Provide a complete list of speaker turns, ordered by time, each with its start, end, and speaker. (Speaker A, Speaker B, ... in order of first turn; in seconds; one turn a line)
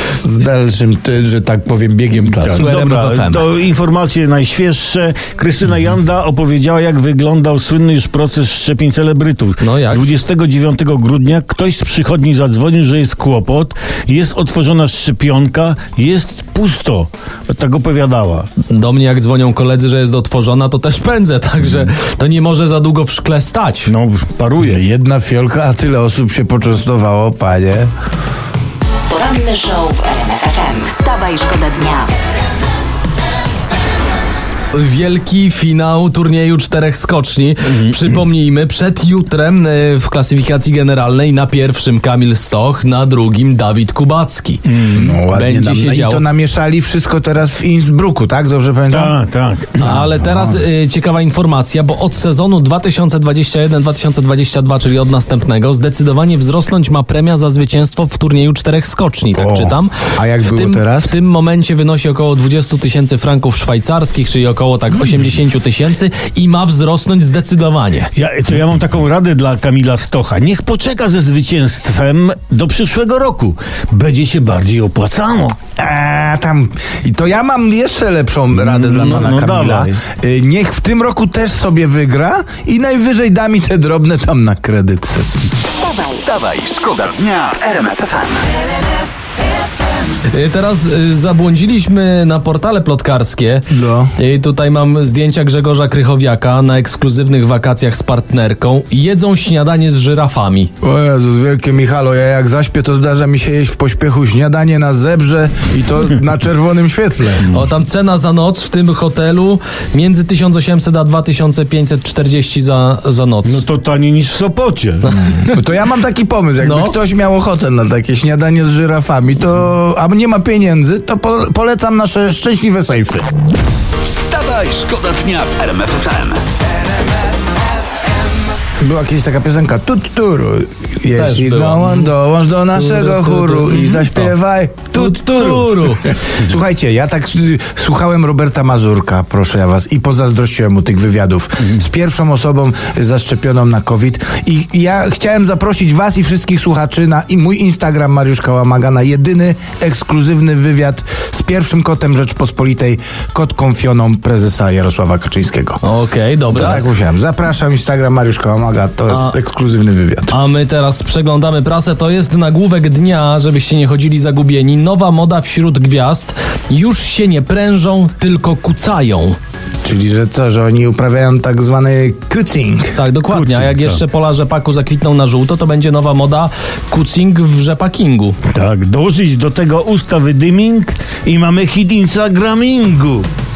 Speaker A: 0.2-2.7
Speaker B: 2.3-18.5
Speaker C: 2.6-3.5
Speaker C: 9.6-10.1
Speaker C: 18.7-23.9
Speaker B: 23.9-24.8
Speaker A: 24.6-27.9
Speaker D: 29.1-32.1
Speaker C: 34.7-44.6
Speaker B: 37.6-38.0
Speaker B: 44.6-45.0
Speaker A: 44.9-49.1
Speaker C: 45.3-46.2
Speaker B: 48.9-50.1
Speaker C: 49.8-68.1
Speaker A: 50.0-50.6
Speaker A: 59.3-61.1
Speaker B: 68.1-75.6
Speaker A: 75.8-85.4
Speaker B: 78.5-80.0
Speaker D: 85.8-86.2
Speaker E: 86.2-88.5
Speaker C: 90.3-100.7
Speaker A: 93.7-94.1
Speaker A: 100.8-107.4
Speaker C: 107.4-113.6
Speaker B: 113.4-115.1
Speaker C: 115.0-115.6
Speaker A: 115.3-123.3
Speaker C: 116.6-117.0
Speaker E: 124.0-126.4
Speaker A: 128.8-155.8
Speaker C: 131.2-132.1
Speaker C: 132.7-134.3
Speaker C: 134.9-136.1
Speaker C: 155.8-156.8
Speaker A: 156.5-160.3
Speaker C: 159.1-159.3
Speaker C: 160.3-169.4
Speaker A: 169.8-173.0
Speaker C: 172.9-178.3
Speaker B: 173.3-174.0
Speaker B: 178.5-183.3